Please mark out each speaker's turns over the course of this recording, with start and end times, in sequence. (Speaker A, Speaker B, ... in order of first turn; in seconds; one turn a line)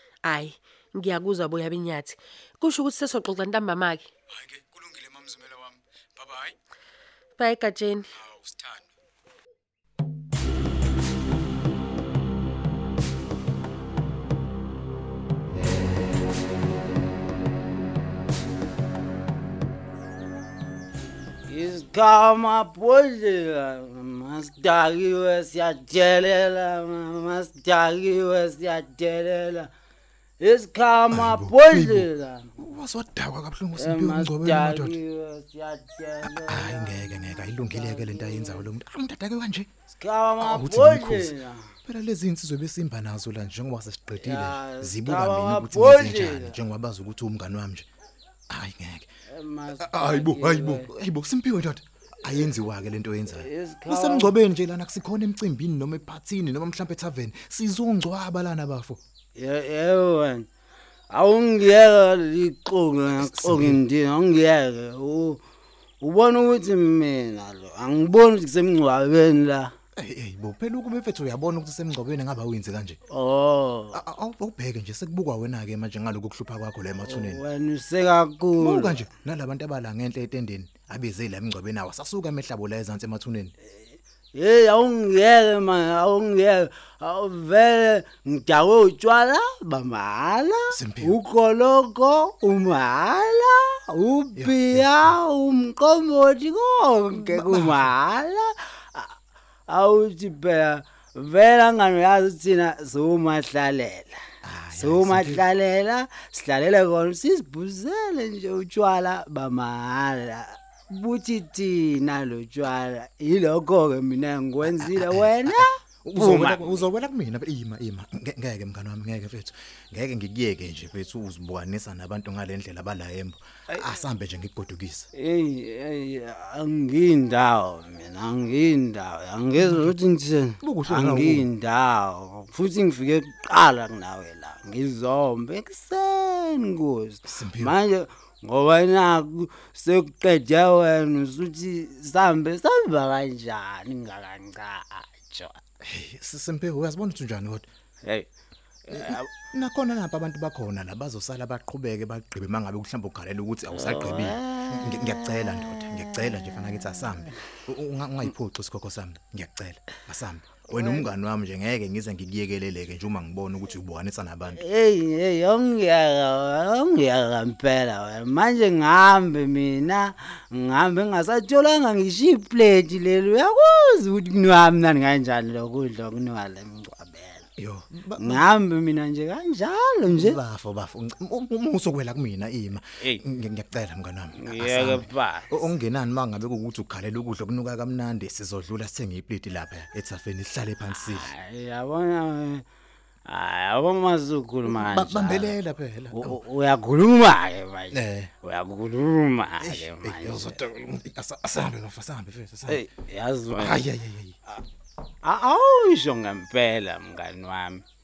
Speaker A: 0.2-4.1
Speaker B: 4.3-6.6
Speaker A: 7.4-8.1
Speaker B: 8.1-8.9
Speaker C: 21.4-29.7
Speaker C: 30.4-32.6
Speaker D: 31.1-35.0
Speaker C: 33.8-38.6
Speaker D: 36.2-39.7
Speaker C: 39.9-41.7
Speaker D: 40.4-41.3
Speaker D: 41.8-47.9
Speaker C: 44.2-46.6
Speaker D: 48.5-49.1
Speaker C: 49.3-50.9
Speaker D: 49.8-59.0
Speaker C: 53.3-54.3
Speaker C: 59.3-60.5
Speaker C: 61.1-65.4
Speaker D: 63.1-63.8
Speaker C: 66.0-69.7
Speaker D: 70.0-73.0
Speaker C: 73.1-74.0
Speaker D: 73.9-77.4
Speaker C: 77.0-79.0
Speaker D: 78.6-83.5
Speaker C: 83.9-99.2
Speaker D: 90.7-91.2
Speaker D: 94.3-95.2
Speaker D: 97.1-97.9
Speaker C: 99.7-104.2
Speaker D: 104.4-105.4
Speaker C: 104.7-116.9
Speaker D: 114.6-125.1
Speaker C: 125.1-145.6
Speaker D: 129.6-129.9
Speaker D: 130.6-131.5
Speaker D: 137.2-137.8
Speaker D: 145.8-147.7
Speaker C: 148.8-149.3
Speaker D: 148.9-164.6
Speaker C: 153.7-157.3
Speaker C: 160.7-161.0
Speaker C: 164.5-177.5
Speaker D: 177.6-178.4
Speaker C: 178.2-180.4
Speaker D: 180.1-191.3
Speaker C: 184.4-185.7
Speaker C: 190.9-192.6
Speaker C: 193.2-195.6
Speaker D: 194.7-196.4
Speaker C: 196.1-200.6
Speaker D: 197.9-198.3
Speaker D: 199.6-202.8
Speaker C: 202.7-203.8
Speaker D: 203.5-204.4
Speaker C: 205.2-207.8